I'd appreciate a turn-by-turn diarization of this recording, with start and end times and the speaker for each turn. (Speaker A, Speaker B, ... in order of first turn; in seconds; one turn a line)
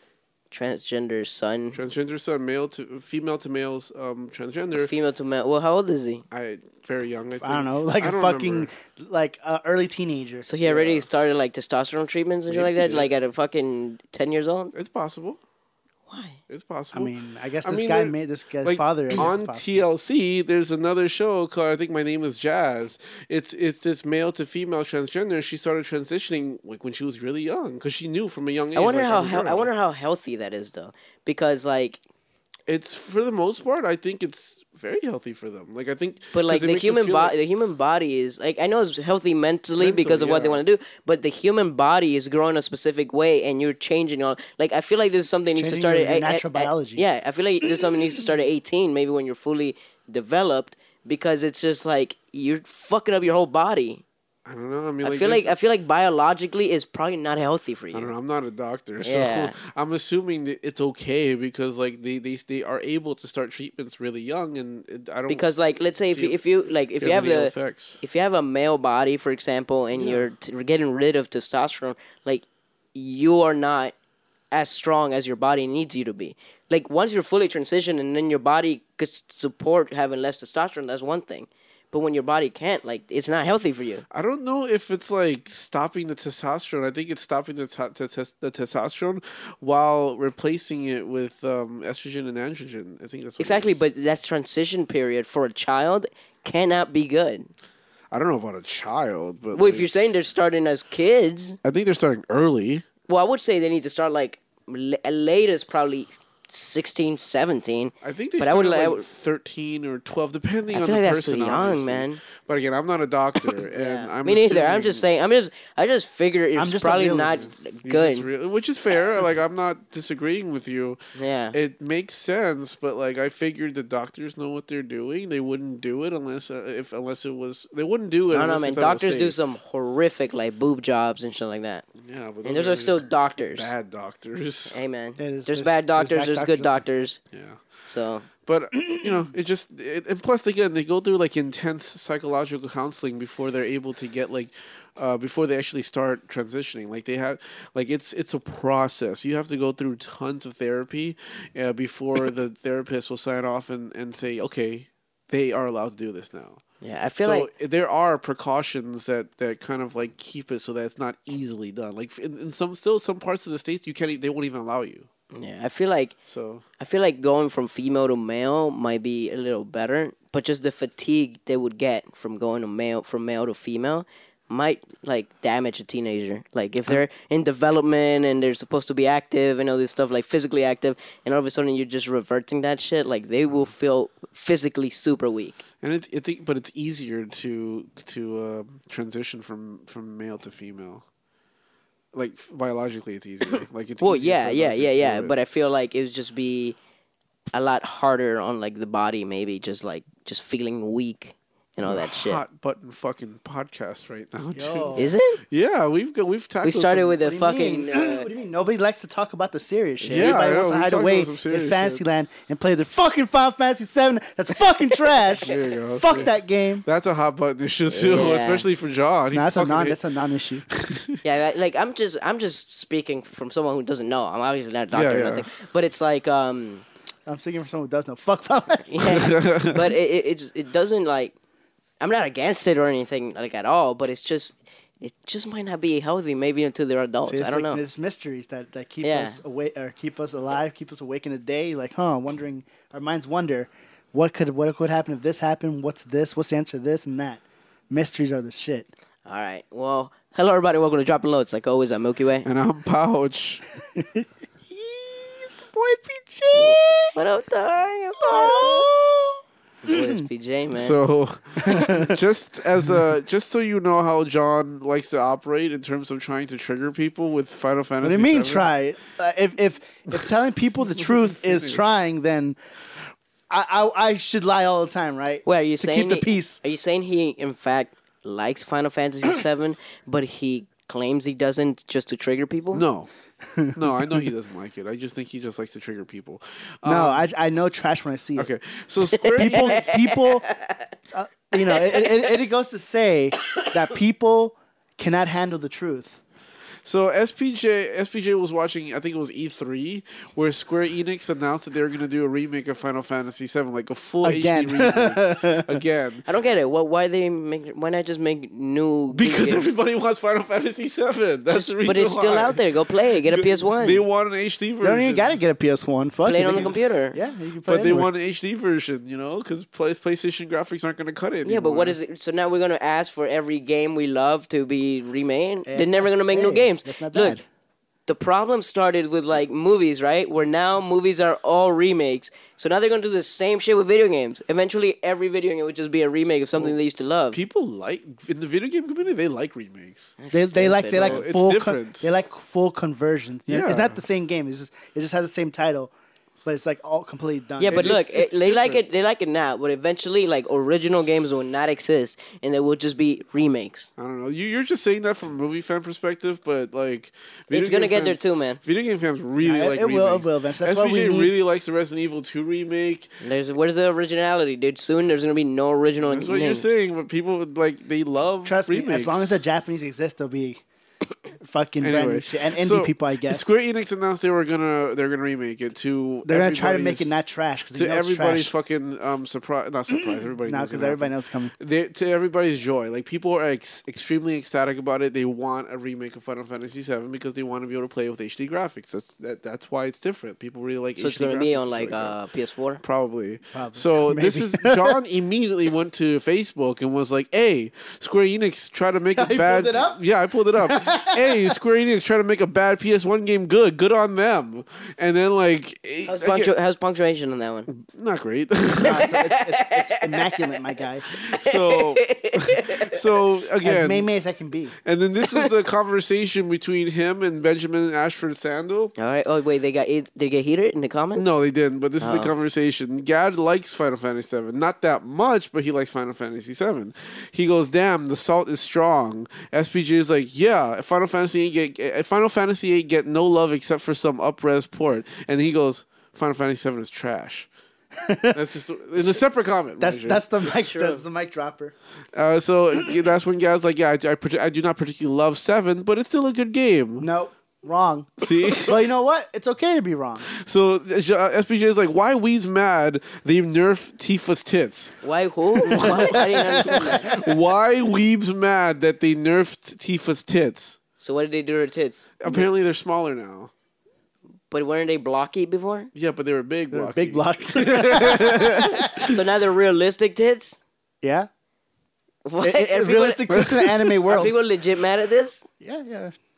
Speaker A: 0.5-1.8
Speaker B: 1.7-4.9
Speaker A: 4.7-6.2
Speaker B: 6.3-8.7
Speaker C: 7.4-10.4
Speaker A: 10.4-14.7
Speaker B: 10.6-11.1
Speaker B: 12.5-13.1
Speaker B: 14.7-15.4
Speaker A: 16.1-16.4
Speaker B: 16.5-29.7
Speaker C: 16.9-19.7
Speaker A: 28.7-32.0
Speaker B: 32.7-37.3
Speaker A: 36.3-54.0
Speaker B: 39.8-40.6
Speaker C: 45.5-47.0
Speaker B: 54.5-55.5
Speaker A: 55.0-58.1
Speaker B: 57.9-66.4
Speaker A: 59.0-59.5
Speaker A: 65.3-73.9
Speaker B: 67.0-68.0
Speaker B: 69.9-70.2
Speaker A: 74.5-84.0
Speaker B: 84.1-93.8
Speaker A: 93.4-97.5
Speaker B: 98.1-99.9
Speaker A: 99.5-101.6
Speaker B: 101.6-102.8
Speaker A: 103.1-109.0
Speaker B: 108.0-115.0
Speaker A: 110.7-112.2
Speaker A: 113.6-118.3
Speaker C: 116.5-117.4
Speaker B: 117.3-121.0
Speaker A: 121.1-121.5
Speaker B: 121.5-129.4
Speaker A: 128.3-131.8
Speaker B: 132.0-134.8
Speaker A: 132.4-133.7
Speaker A: 134.7-137.2
Speaker C: 135.2-136.8
Speaker B: 137.3-137.6
Speaker A: 137.8-138.3
Speaker B: 138.4-156.6
Speaker A: 156.8-157.5
Speaker B: 157.2-165.1
Speaker A: 165.3-166.1
Speaker B: 166.2-166.6
Speaker A: 166.8-185.6
Speaker B: 185.8-191.0
Speaker B: 192.1-195.3
Speaker A: 194.0-196.8
Speaker A: 197.5-202.4
Speaker B: 201.8-207.2
Speaker C: 204.5-205.1
Speaker A: 204.9-205.4
Speaker A: 206.6-208.3
Speaker C: 207.2-216.8
Speaker A: 210.0-210.3
Speaker B: 210.1-212.0
Speaker B: 215.4-216.3
Speaker B: 216.8-220.0
Speaker A: 218.0-218.7
Speaker C: 219.3-220.7
Speaker B: 220.7-221.2
Speaker A: 221.2-226.8
Speaker B: 224.9-225.5
Speaker C: 227.2-229.3
Speaker A: 228.9-231.3
Speaker B: 229.0-229.9
Speaker A: 232.0-237.8
Speaker C: 237.2-248.9
Speaker A: 239.0-239.4
Speaker A: 249.2-252.5
Speaker B: 252.4-253.6
Speaker C: 253.9-257.1
Speaker A: 256.5-258.9
Speaker C: 258.2-260.2
Speaker A: 259.8-260.9
Speaker B: 260.7-268.7
Speaker C: 261.6-262.2
Speaker C: 268.0-272.6
Speaker B: 271.1-271.9
Speaker C: 273.5-276.6
Speaker A: 275.4-282.9
Speaker B: 282.7-283.1
Speaker C: 283.5-284.3
Speaker B: 283.7-287.3
Speaker C: 286.8-288.5
Speaker B: 288.4-290.0
Speaker A: 289.1-290.8
Speaker C: 289.4-290.4
Speaker C: 291.1-296.2
Speaker A: 291.7-292.0
Speaker B: 296.8-306.2
Speaker C: 304.2-305.7
Speaker A: 306.2-309.7
Speaker B: 309.1-312.6
Speaker A: 311.5-314.0
Speaker B: 313.2-315.3
Speaker C: 314.8-318.1
Speaker A: 316.2-317.2
Speaker B: 317.6-322.0
Speaker A: 321.4-327.4
Speaker C: 325.6-327.4
Speaker A: 328.1-337.4
Speaker B: 337.3-340.1
Speaker A: 340.2-341.2
Speaker C: 340.3-345.9
Speaker B: 340.9-342.1
Speaker B: 343.5-344.0
Speaker C: 346.4-348.0
Speaker A: 347.6-353.9
Speaker B: 347.7-348.8
Speaker B: 354.0-363.2
Speaker A: 357.5-358.6
Speaker C: 359.4-361.3
Speaker A: 363.2-366.6
Speaker B: 366.0-369.4
Speaker C: 368.4-370.6
Speaker C: 371.4-373.5
Speaker B: 371.8-377.1
Speaker C: 376.2-378.5
Speaker B: 377.7-392.2
Speaker C: 379.9-381.5
Speaker A: 391.0-392.8
Speaker B: 392.8-406.5
Speaker C: 393.5-395.0
Speaker C: 399.1-400.0
Speaker C: 400.6-401.6
Speaker A: 406.0-407.7
Speaker B: 407.7-409.1
Speaker C: 408.8-411.1
Speaker A: 408.8-410.4
Speaker A: 411.1-413.0
Speaker B: 411.1-414.1
Speaker C: 413.6-414.7
Speaker B: 414.8-418.9
Speaker A: 419.0-421.2
Speaker B: 421.1-437.5
Speaker A: 422.0-422.3
Speaker C: 438.0-438.4
Speaker B: 438.3-440.6
Speaker C: 439.8-441.7
Speaker A: 440.5-441.0
Speaker B: 442.1-447.1
Speaker C: 447.0-450.3
Speaker B: 448.2-448.8
Speaker B: 450.3-455.0
Speaker A: 455.0-457.1
Speaker B: 455.6-460.8
Speaker C: 455.7-457.3
Speaker A: 461.0-462.1
Speaker B: 462.2-463.5
Speaker A: 464.5-465.9
Speaker B: 465.9-469.0
Speaker C: 466.7-469.1
Speaker A: 469.0-470.6
Speaker C: 471.0-471.3
Speaker A: 472.2-473.5
Speaker C: 472.4-474.4
Speaker B: 473.3-473.7
Speaker A: 474.0-475.4
Speaker C: 475.6-476.1